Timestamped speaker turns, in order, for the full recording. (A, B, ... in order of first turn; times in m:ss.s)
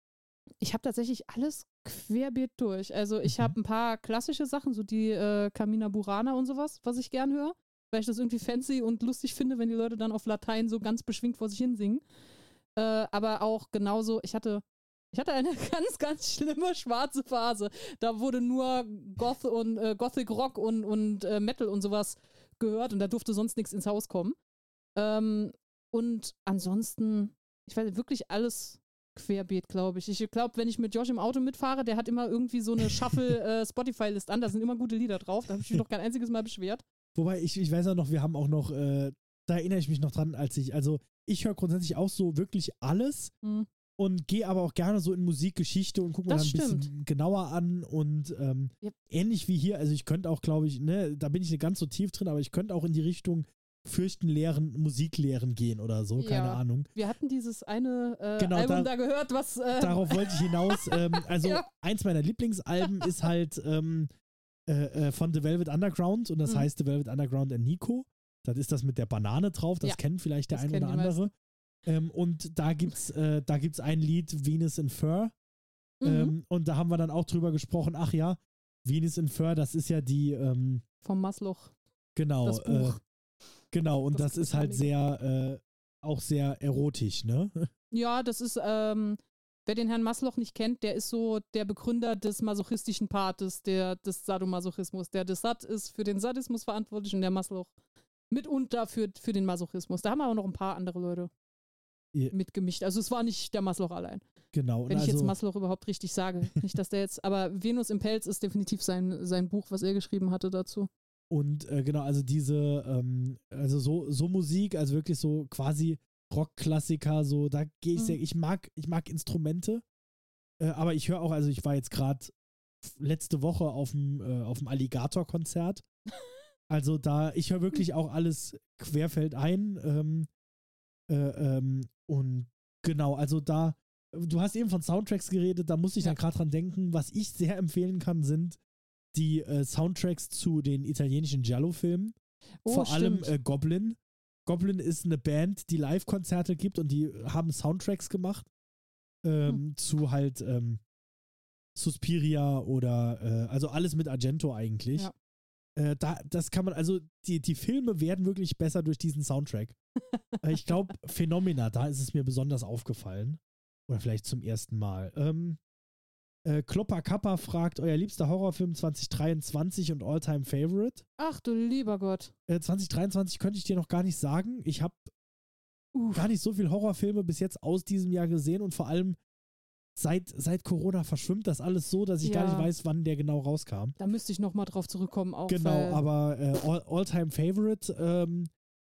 0:00.6-0:12.0 A
0:03.2-0:03.6 B
0:12.8-0:24.4 A
0:25.0-0:36.8 A
0:37.2-0:43.3 B
0:44.0-0:56.9 B
0:46.3-0:46.9 A
0:56.2-1:01.7 A
0:58.4-0:58.9 B
0:59.8-1:04.1 B
1:04.7-1:11.3 B
1:10.5-1:11.3 A
1:11.9-1:15.3 B
1:16.0-1:16.4 A
1:16.0-1:20.8 B
1:21.0-1:21.7 A
1:22.2-1:23.0 B
1:22.4-1:23.0 A
1:23.7-1:27.7 B
1:24.1-1:24.9 A
1:27.9-1:37.7 A
1:38.3-1:41.3 A
1:42.3-1:44.2 A
1:44.5-1:45.3 B
1:44.9-1:50.9 A
1:51.3-1:59.8 B
2:00.6-2:02.3 B
2:02.8-2:05.8 B
2:06.7-2:10.3 B
2:11.1-2:18.6 B
2:19.1-2:22.2 B
2:22.6-2:23.3 A
2:22.7-2:28.5 B
2:29.2-2:30.8 B
2:31.8-2:35.1 B
2:35.8-2:39.8 B
2:40.1-2:40.4 A
2:40.4-2:45.6 B
2:46.4-2:51.0 B
2:51.2-2:52.3 A
2:52.5-2:55.1 B
2:56.0-2:56.3 A
2:56.2-2:59.2 B
3:00.0-3:04.0 B
3:02.2-3:02.7 A
3:04.0-3:06.0 A
3:05.5-3:08.5 B